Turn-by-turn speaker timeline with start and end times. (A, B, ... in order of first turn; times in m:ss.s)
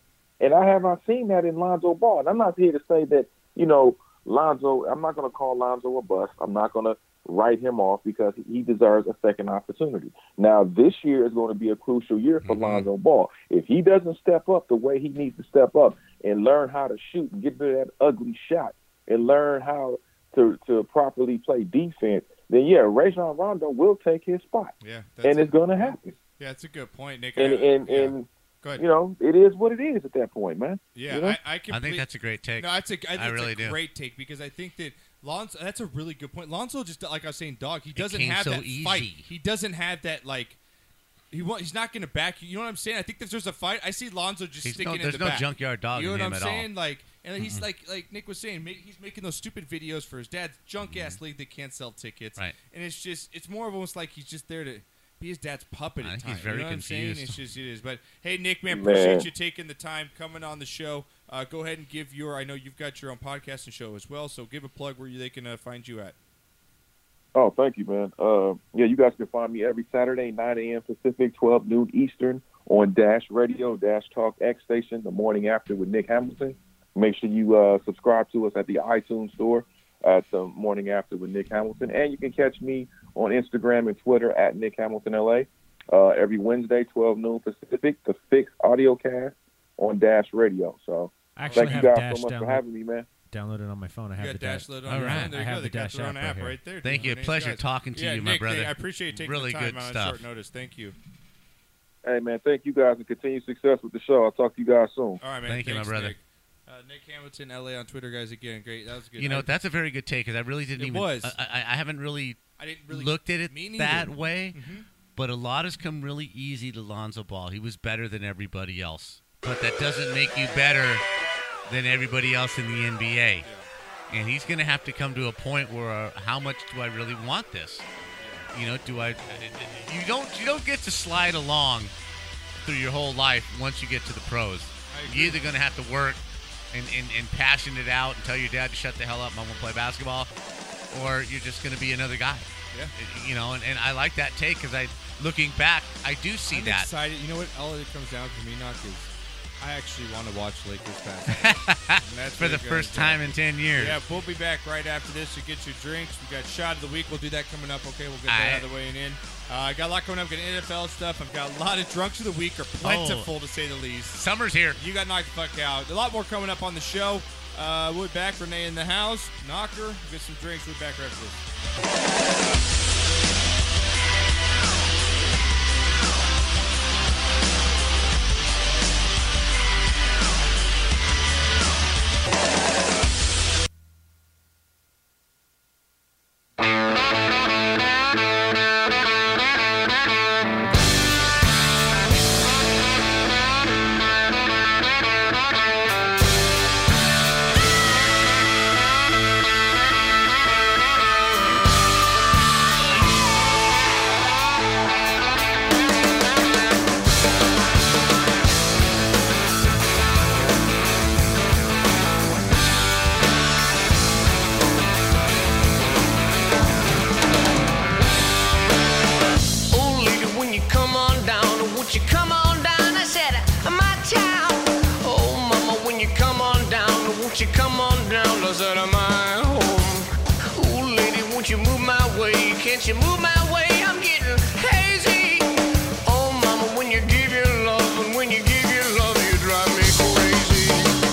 0:00.4-0:26.2 A
0:12.4-0:12.9 B
0:24.8-0:28.8 C
0:27.4-0:31.4 A
0:31.0-0:40.6 C
0:31.7-0:33.8 B
0:38.0-0:39.3 B
0:41.3-1:06.2 C
0:44.6-0:46.7 B
0:47.4-0:47.7 B
0:50.8-0:51.2 B
0:56.0-0:57.4 B
0:58.7-0:59.3 A
1:07.4-1:33.1 A
1:31.4-1:32.6 D
1:31.5-1:31.8 C
1:33.3-1:36.6 D
1:34.2-1:41.0 C
1:34.9-1:35.3 B
1:36.8-1:40.2 B
1:42.0-1:45.2 A
1:45.2-1:49.5 C
1:45.5-1:46.2 B
1:49.2-1:54.6 B
1:50.8-1:51.4 C
1:52.6-1:54.9 C
1:55.2-2:01.1 B
2:01.7-2:03.5 B
2:03.4-2:03.7 C
2:04.1-2:07.9 B
2:08.2-2:08.5 C
2:08.5-2:11.9 B
2:12.6-2:20.3 B
2:14.9-2:15.4 C
2:20.9-2:26.9 B
2:26.5-2:44.2 C
2:31.3-2:34.0 B
2:38.3-2:38.7 B
2:42.8-2:43.3 B
2:44.1-2:44.8 B
2:44.8-2:51.4 C
3:39.7-4:01.0 E